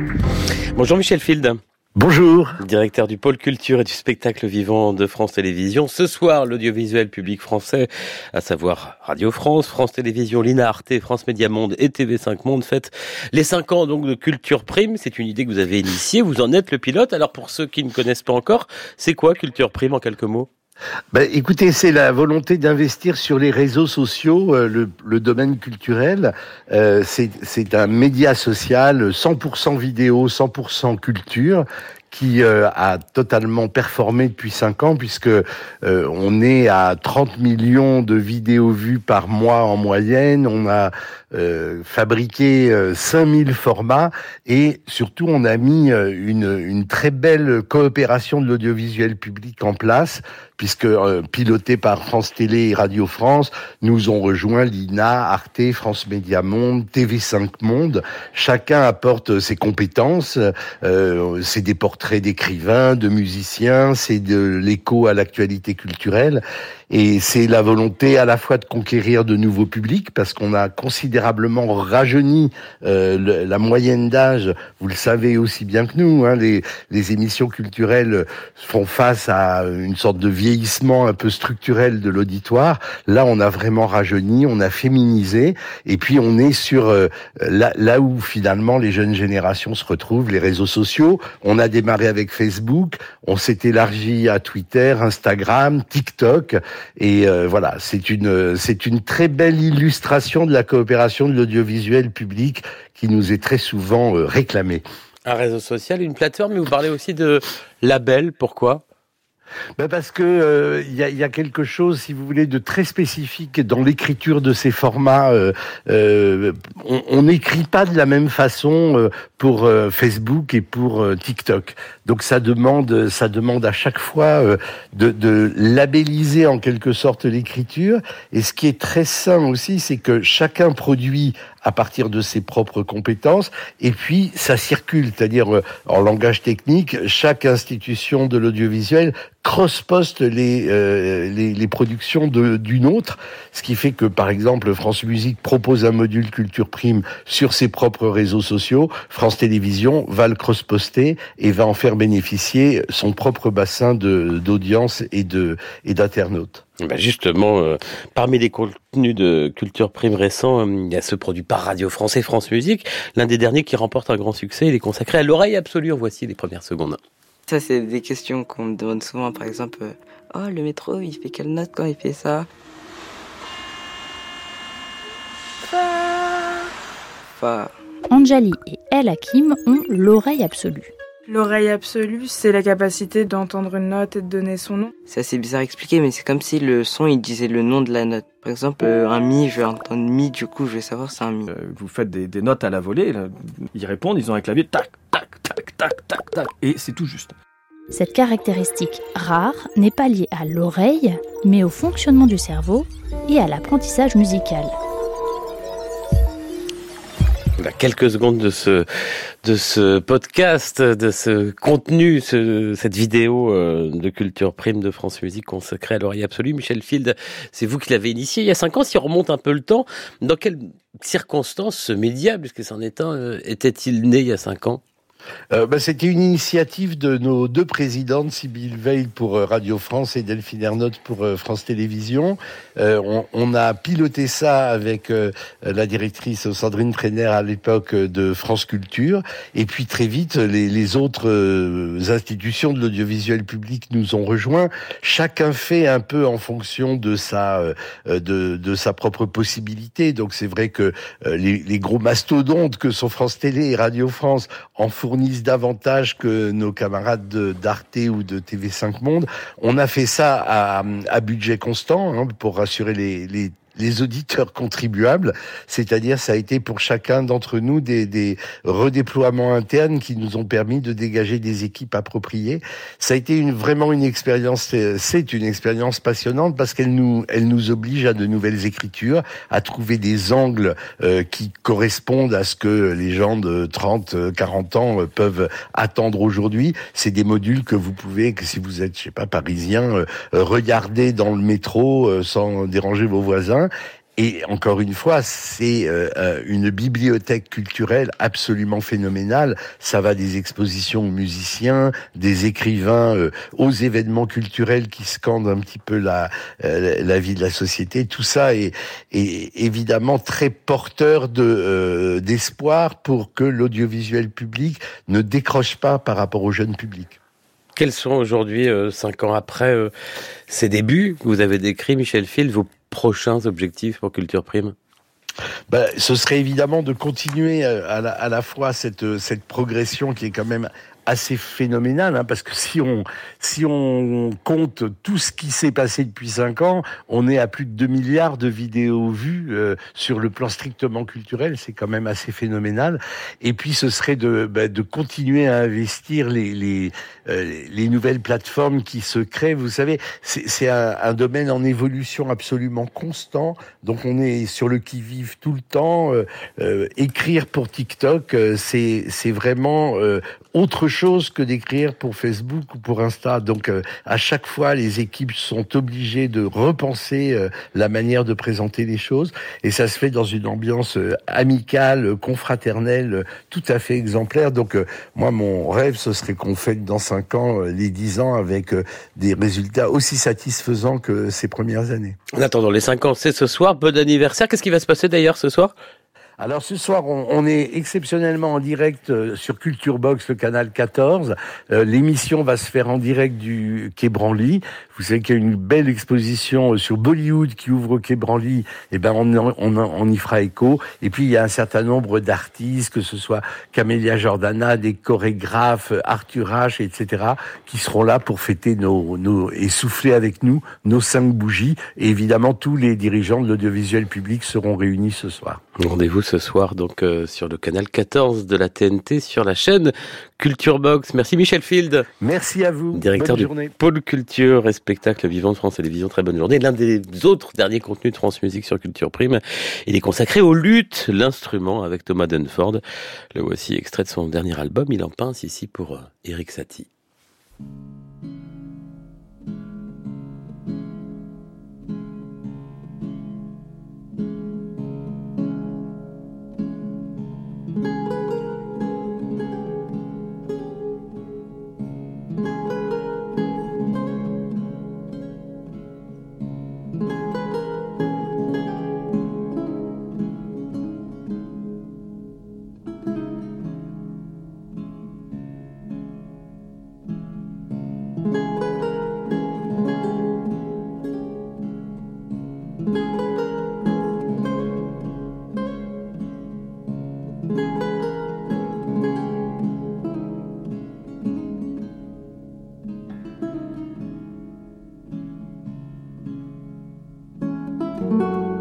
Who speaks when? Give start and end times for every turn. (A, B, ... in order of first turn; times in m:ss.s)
0:00.7-0:01.6 A
0:01.9-0:02.6 B
0:02.6-0:20.5 A
0:21.1-1:44.8 B
1:45.2-1:48.8 A
1:49.8-2:36.6 B
2:36.8-2:47.0 A
2:47.5-2:52.5 C
2:55.7-2:56.5 C
2:57.4-2:57.7 C
2:58.1-3:00.9 D
3:01.3-3:04.9 E
3:05.1-3:11.5 C
3:11.5-3:17.3 F
3:17.9-3:24.7 D
3:27.6-3:28.9 A
3:29.4-3:44.8 A
3:45.5-5:17.2 B
5:17.8-5:19.9 A
5:20.5-5:24.7 A
5:25.7-6:22.2 B
6:22.3-6:25.7 A
6:26.4-6:55.6 B
6:55.8-7:02.1 A
7:02.2-7:03.7 B
7:02.9-7:12.8 A
7:13.3-7:16.9 A